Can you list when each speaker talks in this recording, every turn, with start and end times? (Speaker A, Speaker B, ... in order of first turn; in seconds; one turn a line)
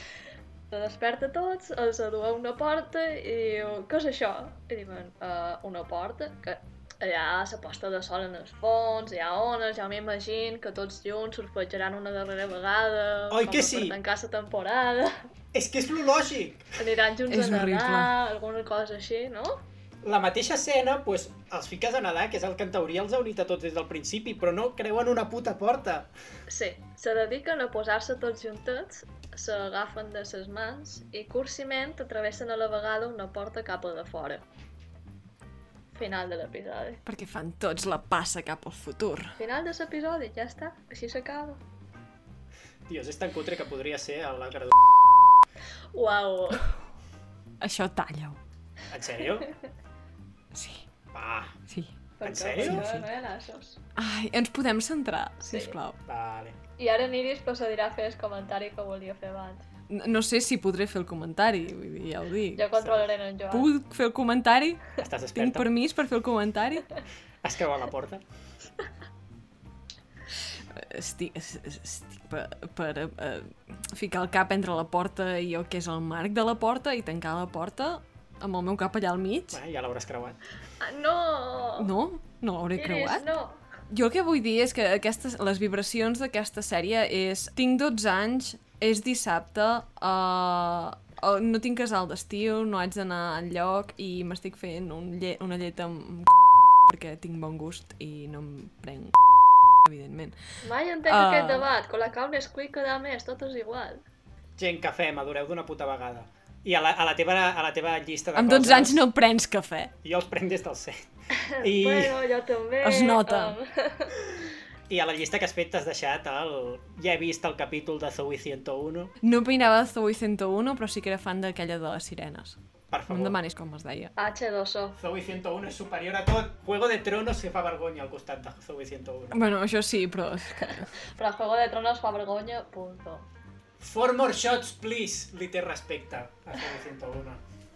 Speaker A: 0.7-15.2
Speaker B: 13.3-14.0
Speaker B: 15.5-16.6
Speaker A: 16.8-19.6
Speaker C: 17.3-18.1
Speaker B: 20.0-26.1
Speaker A: 26.5-34.4
Speaker A: 35.9-37.0
Speaker C: 37.0-39.3
Speaker A: 39.4-41.6
Speaker B: 42.9-44.7
Speaker A: 45.9-46.7
Speaker C: 47.6-48.4
Speaker B: 48.9-49.5
Speaker C: 50.5-50.8
Speaker B: 51.1-51.5
Speaker C: 51.7-51.9
Speaker A: 52.2-53.8
Speaker B: 52.2-52.9
Speaker C: 52.6-53.0
Speaker C: 54.0-56.0
Speaker A: 55.4-55.8
Speaker B: 56.1-56.6
Speaker A: 56.8-59.6
Speaker C: 59.9-62.7
Speaker A: 62.5-63.7
Speaker C: 63.5-66.9
Speaker B: 65.0-65.7
Speaker B: 67.4-68.2
Speaker C: 70.8-79.6
Speaker B: 79.5-80.4
Speaker A: 80.8-81.9
Speaker C: 81.8-83.2
Speaker A: 82.8-83.6
Speaker C: 83.9-96.3
Speaker C: 96.8-99.2
Speaker C: 99.8-100.3
Speaker A: 100.6-104.0
Speaker C: 101.0-101.7
Speaker B: 104.6-109.0
Speaker C: 108.3-109.9
Speaker B: 110.0-111.0
Speaker A: 111.3-114.1
Speaker B: 111.6-112.2
Speaker C: 112.8-113.6
Speaker B: 114.9-119.1
Speaker C: 119.2-124.1
Speaker B: 122.9-123.4
Speaker A: 124.2-125.0
Speaker B: 125.0-129.4
Speaker C: 129.3-130.9
Speaker A: 131.1-133.3
Speaker B: 133.8-137.4